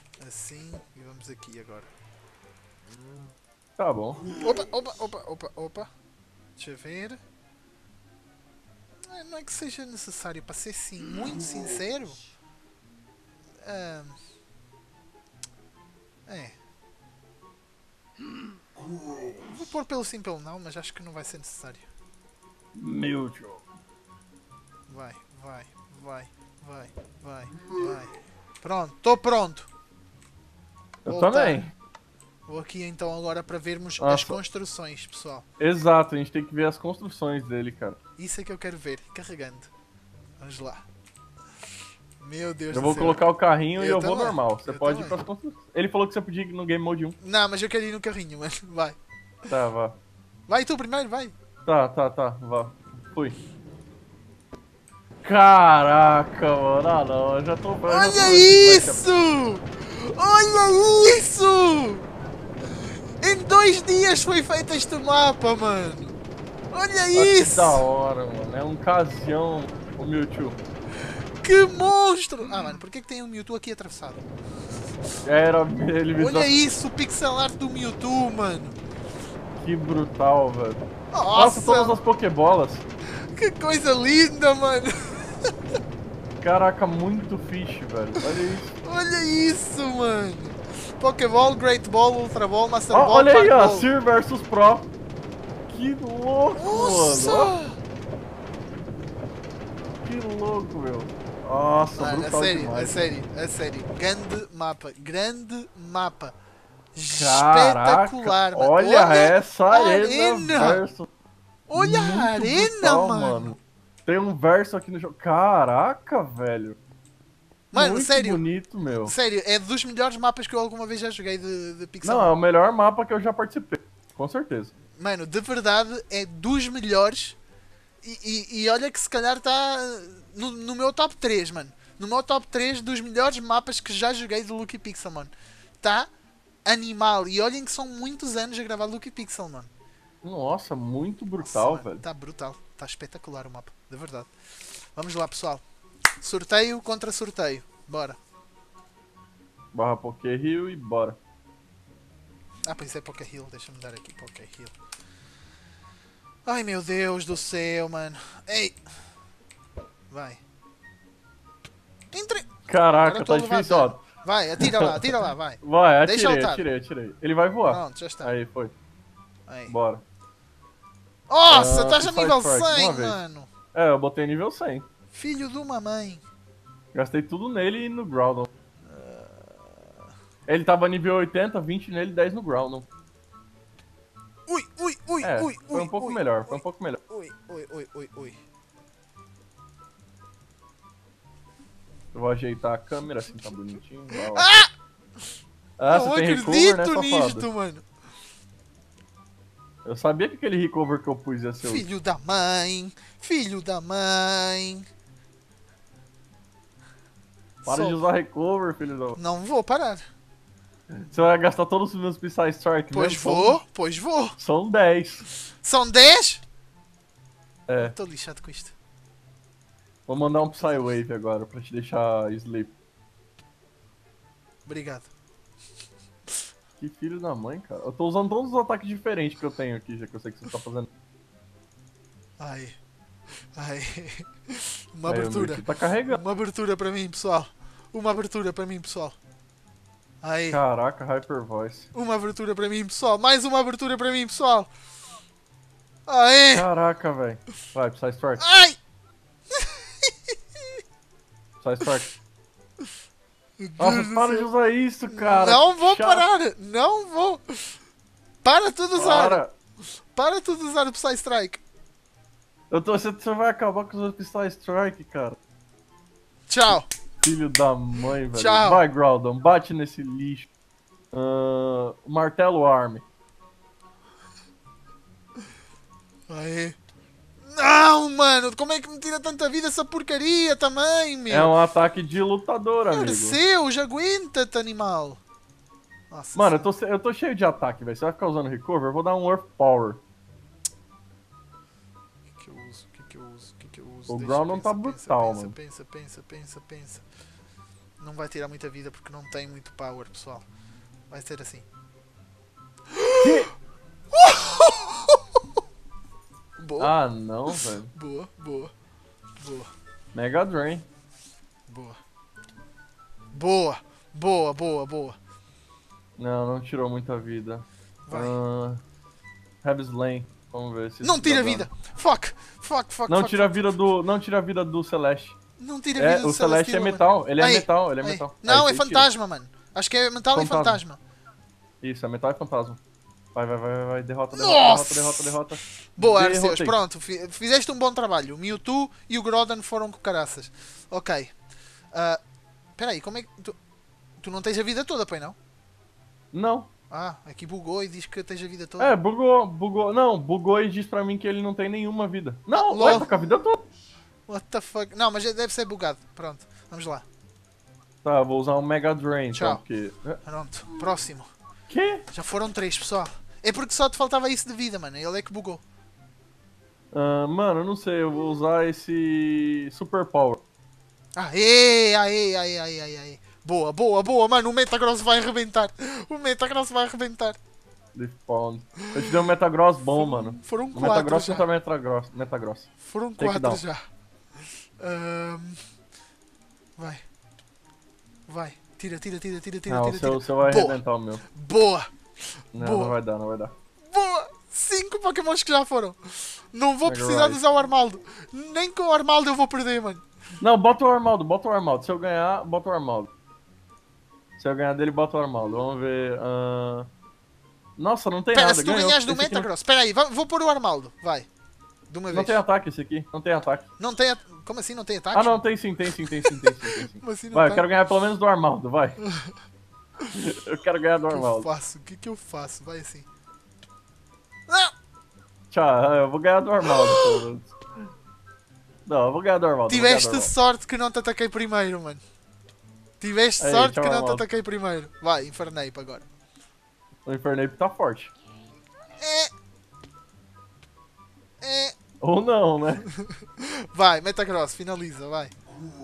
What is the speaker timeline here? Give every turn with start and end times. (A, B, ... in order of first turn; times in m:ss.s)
0:00.2-0:01.9 A
0:03.8-0:04.3 B
0:04.4-0:05.9 A
0:06.6-0:07.2 A
0:09.1-0:12.2 A
0:13.6-0:14.2 A
0:16.3-0:16.6 A
0:19.5-0:21.9 A
0:22.8-0:23.6 B
0:24.9-0:29.7 A
0:31.0-0:31.7 B
0:31.1-0:31.7 A
0:32.5-0:35.4 A
0:34.0-0:34.4 B
0:35.6-0:38.0 B
0:38.2-0:39.7 A
0:40.4-0:40.8 A
0:42.2-0:43.2 A
0:42.7-0:47.2 B
0:43.8-0:45.2 A
0:47.2-0:49.0 A
0:49.5-0:50.0 B
0:50.5-0:51.3 A
0:51.7-0:53.4 B
0:55.2-0:59.1 B
0:57.9-1:02.1 A
1:03.2-1:06.2 A
1:06.7-1:07.8 A
1:07.2-1:10.6 B
1:11.4-1:14.3 A
1:15.2-1:16.5 B
1:16.2-1:18.8 A
1:19.6-1:22.8 B
1:21.1-1:22.0 A
1:23.4-1:25.5 A
1:26.4-1:28.8 B
1:28.8-1:33.9 A
1:32.9-1:34.9 B
1:35.7-1:37.5 B
1:36.6-1:37.8 A
1:40.0-1:43.1 B
1:42.0-1:46.3 A
1:47.0-1:50.8 A
1:47.2-1:51.1 B
1:51.7-1:53.6 A
1:51.8-1:56.8 B
1:57.7-2:02.3 A
1:57.7-1:59.1 B
2:02.0-2:04.7 B
2:05.0-2:07.4 A
2:08.0-2:16.1 A
2:16.7-2:19.7 A
2:20.2-2:22.0 B
2:21.4-2:24.3 A
2:25.0-2:25.6 A
2:26.2-2:28.2 A
2:29.7-2:31.2 B
2:32.7-2:34.8 A
2:36.5-2:38.8 A
2:40.1-2:40.4 A
2:42.1-2:42.5 A
2:42.7-2:44.0 B
2:43.0-2:46.6 A
2:44.6-2:48.7 B
2:47.7-2:48.3 A
2:49.5-2:49.7 A
2:49.7-2:50.0 B
2:51.3-2:53.5 A
2:51.5-2:53.2 B
2:53.7-2:54.9 B
2:55.1-2:56.2 A
2:56.9-2:58.5 B
2:58.8-2:59.9 A
3:00.5-3:02.9 B
3:04.5-3:08.4 A
3:05.2-3:07.0 B
3:12.1-3:14.5 B
3:14.3-3:14.7 A
3:15.8-3:17.5 B
3:15.9-3:17.8 A
3:19.8-3:21.8 B
3:21.6-3:24.9 A
3:27.6-3:28.0 A
3:27.7-3:29.2 B
3:29.2-3:30.0 A
3:30.9-3:33.6 B
3:32.9-3:34.4 A
3:34.4-3:35.2 B
3:35.6-3:36.4 A
3:37.7-3:38.0 B
3:37.8-3:38.7 A
3:40.1-3:42.7 B
3:40.6-3:40.9 A
3:44.7-3:45.1 A
3:46.8-3:50.9 B
3:52.4-3:52.8 A
3:53.6-3:59.2 A
3:55.1-3:56.2 B
4:00.2-4:00.6 A
4:00.5-4:01.9 B
4:01.9-4:04.7 A
4:06.1-4:06.7 A
4:06.5-4:08.4 B
4:08.4-4:08.8 A
4:09.5-4:10.4 A
4:11.6-4:12.1 B
4:13.6-4:14.5 A
4:13.8-4:16.2 B
4:15.1-4:17.8 A
4:18.4-4:19.4 A
4:19.0-4:19.5 B
4:20.2-4:21.6 A
4:22.7-4:25.4 B
4:26.5-4:26.9 A
4:27.2-4:30.5 B
4:28.3-4:28.8 A
4:31.1-4:33.0 B
4:36.3-4:36.8 A
4:37.4-4:41.5 A
4:41.3-4:43.4 B
4:42.9-4:45.2 A
4:46.1-4:46.7 A
4:46.4-4:50.0 B
4:52.4-4:57.0 A
4:54.1-4:55.6 B
4:58.0-5:00.5 A
5:01.1-5:01.6 A
5:02.9-5:03.4 A
5:03.2-5:03.5 B
5:04.1-5:05.2 A
5:06.6-5:06.9 A
5:06.8-5:07.9 B
5:07.5-5:08.7 A
5:09.4-5:09.7 A
5:10.1-5:10.8 B
5:11.7-5:12.0 A
5:13.3-5:15.2 A
5:16.2-5:18.8 B
5:18.1-5:18.4 A
5:19.6-5:21.7 B
5:21.0-5:23.8 A
5:23.1-5:25.4 B
5:25.6-5:31.0 A
5:26.0-5:29.1 B
5:30.3-5:30.8 B
5:31.8-5:32.8 B
5:33.4-5:36.8 B
5:34.3-5:35.4 A
5:36.0-5:41.3 A
5:41.9-5:42.2 A
5:42.8-5:43.6 A
5:44.2-5:45.4 A
5:46.3-5:46.7 B
5:46.9-5:49.0 A
5:48.8-5:53.6 B
5:52.5-5:53.1 A
5:54.3-5:57.0 A
5:58.0-6:00.2 B
5:59.3-5:59.6 A
6:00.2-6:01.3 A
6:01.7-6:02.0 B
6:02.1-6:05.6 A
6:06.9-6:10.4 B
6:11.2-6:17.4 A
6:18.0-6:23.6 B
6:18.9-6:19.2 A
6:20.0-6:21.4 A
6:22.8-6:23.8 A
6:24.8-6:25.6 A
6:26.8-6:27.0 A
6:28.3-6:31.9 A
6:29.7-6:31.2 B
6:32.4-6:33.0 A
6:32.5-6:33.5 B
6:33.9-6:40.0 A
6:36.8-6:37.4 B
6:40.4-6:43.1 B
6:44.4-6:46.9 B
6:47.8-6:49.5 B
6:48.3-6:51.3 A
6:51.9-6:52.4 A
6:52.1-6:53.7 B
6:53.8-6:55.4 A
6:55.1-6:59.0 B
6:56.2-6:57.7 A
6:59.0-6:59.3 A
7:00.1-7:01.5 B
7:01.1-7:03.1 A
7:04.5-7:04.7 A
7:05.5-7:07.6 B
7:06.6-7:07.2 A
7:08.9-7:10.3 B
7:09.7-7:12.0 A
7:13.0-7:16.1 A
7:13.4-7:14.2 B
7:17.0-7:18.1 B
7:19.0-7:19.3 A
7:21.4-7:21.8 A
7:22.0-7:22.8 B
7:22.9-7:25.3 A